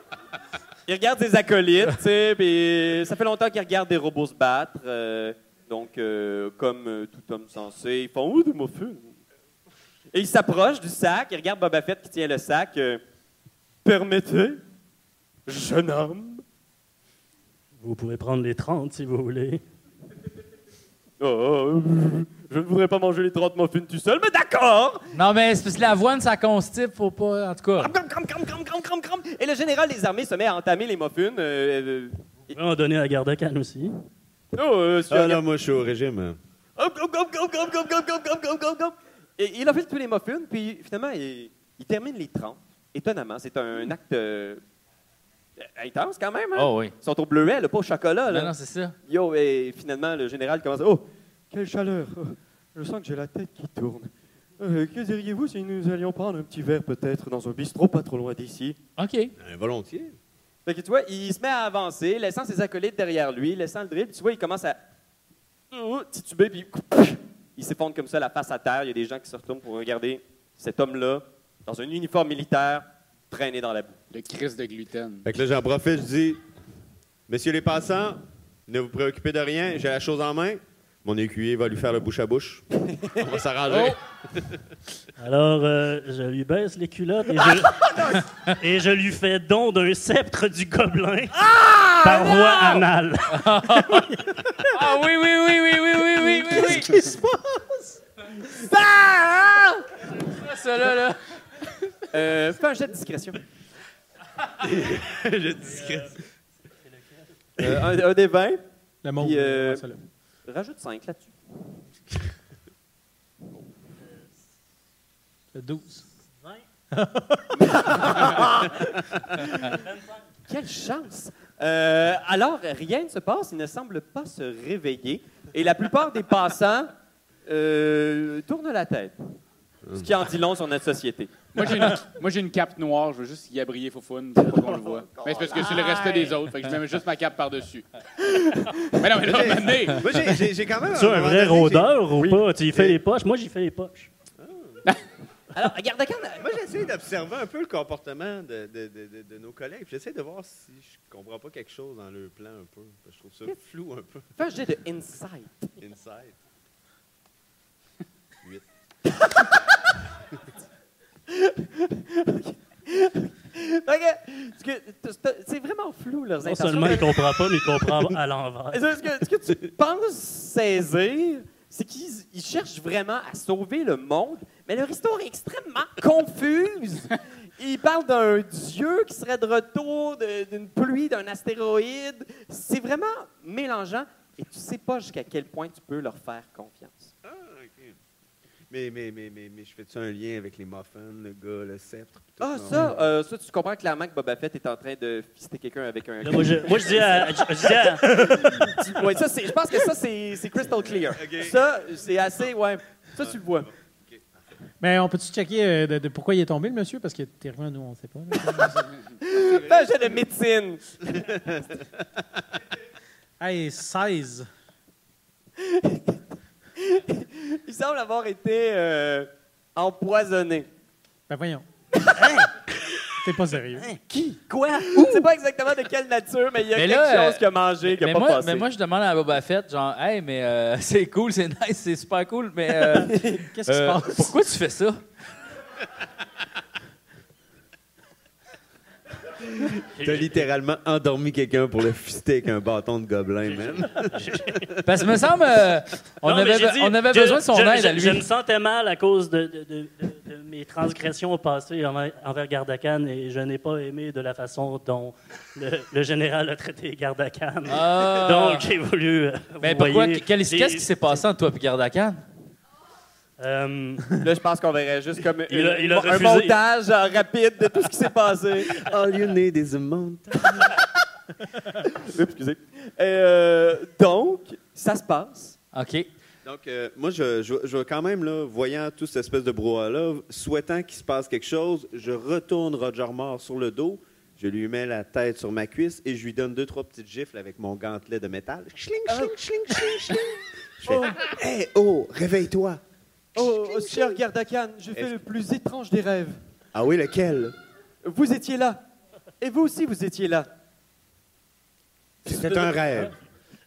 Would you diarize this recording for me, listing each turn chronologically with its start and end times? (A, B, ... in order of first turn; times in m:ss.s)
0:00.9-0:09.2 A
0:10.1-0:13.0 A
0:13.8-0:14.6 A
0:15.5-0:16.4 A
0:17.8-0:19.6 B
0:21.2-0:25.1 A
0:25.1-0:27.9 C
0:27.8-0:32.5 A
0:32.5-0:34.0 B
0:34.5-0:35.4 A
0:35.1-0:36.4 D
0:36.8-0:44.6 A
0:45.6-0:48.5 A
0:46.6-0:46.9 C
0:48.3-0:48.9 C
0:49.1-0:58.8 A
0:59.0-0:59.3 C
0:59.4-1:00.2 D
1:00.6-1:04.8 A
1:05.7-1:14.0 A
1:14.1-1:15.3 E
1:15.2-1:16.4 D
1:17.3-1:24.6 D
1:23.7-1:24.0 E
1:25.2-1:33.5 B
1:31.5-1:32.8 C
1:33.3-1:37.1 C
1:36.4-1:38.0 F
1:38.4-1:41.2 C
1:42.1-1:43.4 A
1:44.6-1:46.2 D
1:47.6-1:48.6 A
1:49.0-1:50.0 F
1:49.2-1:49.9 A
1:50.4-1:51.3 A
1:55.5-1:56.0 F
1:56.9-1:58.4 F
1:57.6-1:59.9 A
2:00.5-2:06.9 A
2:07.4-2:09.1 A
2:09.8-2:10.1 D
2:09.9-2:11.3 A
2:11.5-2:17.8 E
2:15.2-2:16.3 A
2:18.2-2:19.0 A
2:19.0-2:20.1 E
2:19.2-2:21.9 D
2:20.9-2:24.1 B
2:22.7-2:23.0 D
2:24.4-2:24.8 D
2:25.5-2:26.6 A
2:26.4-2:34.3 D
2:34.4-2:35.7 A
2:35.8-2:36.4 D
2:39.1-2:39.9 A
2:41.3-2:48.1 A
2:46.4-2:48.8 B
2:48.7-3:07.1 A
3:07.2-3:08.0 D
3:08.7-3:13.1 D
3:12.4-3:23.7 A
3:16.2-3:18.4 B
3:18.0-3:19.0 F
3:21.0-3:21.6 D
3:23.2-3:24.3 D
3:24.8-3:28.9 F
3:28.5-3:31.6 A
3:29.2-3:30.0 D
3:31.1-3:31.7 D
3:33.4-3:34.5 F
3:35.6-3:36.2 A
3:36.8-3:40.7 A
3:41.3-3:41.6 F
3:41.9-3:42.4 A
3:43.2-3:43.9 F
3:44.9-3:48.7 A
3:46.7-3:55.0 C
3:52.9-3:53.4 A
3:53.5-3:54.3 F
3:59.6-4:04.8 D
4:00.0-4:00.3 B
4:04.1-4:04.8 B
4:04.8-4:08.3 C
4:06.2-4:20.9 B
4:17.7-4:18.7 C
4:19.6-4:22.2 C
4:23.4-4:24.2 B
4:24.2-4:28.7 A
4:25.5-4:26.6 B
4:28.7-4:30.7 D
4:31.8-4:35.6 A
4:35.7-4:36.1 C
4:36.4-4:52.8 D
4:49.1-4:50.3 A
4:50.8-4:51.4 A
4:53.3-4:54.2 D
4:53.3-4:56.4 A
4:54.9-4:55.2 D
4:56.7-4:57.5 D
4:58.0-4:58.8 A
4:59.4-5:00.5 A
5:02.2-5:03.1 D